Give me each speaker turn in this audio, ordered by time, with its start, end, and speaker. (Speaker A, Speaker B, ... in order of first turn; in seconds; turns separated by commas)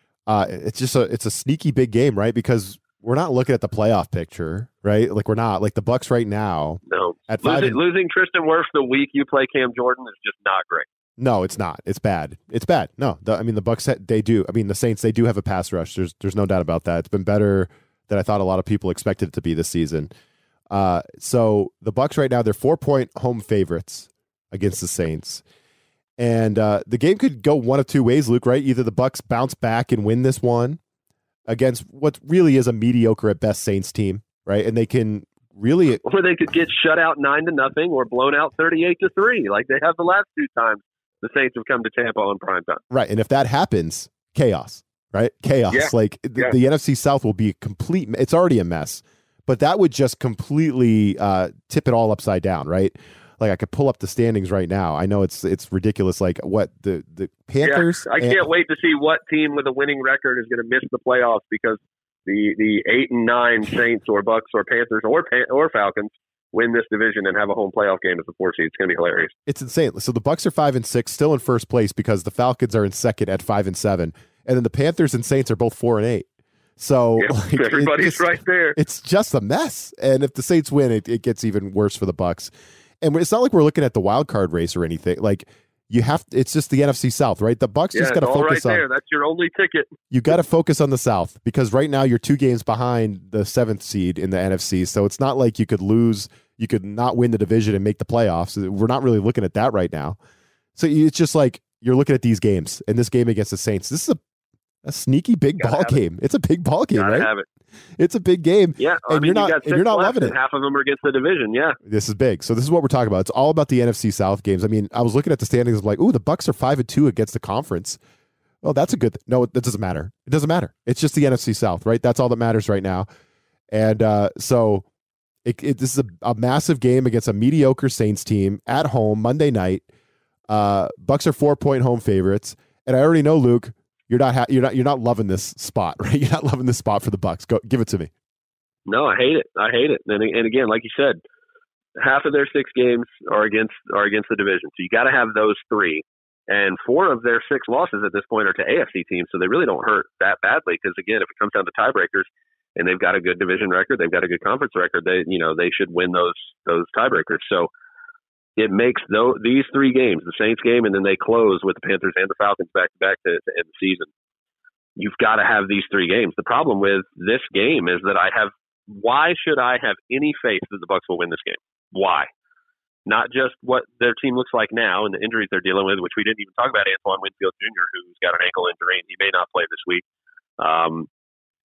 Speaker A: 0.3-7.8, Speaker B: 6.9-10.9, Speaker A: 11.2-20.1, Speaker A: 20.7-25.4, Speaker A: 26.2-30.8, Speaker A: 31.5-36.0, Speaker B: 36.0-42.8, Speaker A: 42.9-58.5, Speaker B: 45.7-46.5, Speaker B: 57.6-69.3, Speaker A: 69.5-76.2, Speaker A: 76.8-88.8, Speaker B: 77.2-78.8, Speaker B: 87.9-89.9, Speaker A: 90.1-100.2, Speaker A: 100.8-104.2, Speaker A: 104.8-107.3, Speaker B: 105.6-106.0, Speaker B: 106.9-107.4, Speaker A: 108.0-110.4, Speaker B: 108.8-111.8, Speaker A: 111.9-118.0, Speaker A: 118.6-123.1, Speaker A: 123.7-124.8, Speaker A: 125.4-129.9, Speaker A: 130.5-138.1, Speaker B: 138.9-141.2, Speaker B: 142.0-157.7, Speaker B: 158.6-164.1, Speaker B: 165.0-172.3, Speaker B: 173.1-180.0, Speaker B: 180.6-181.1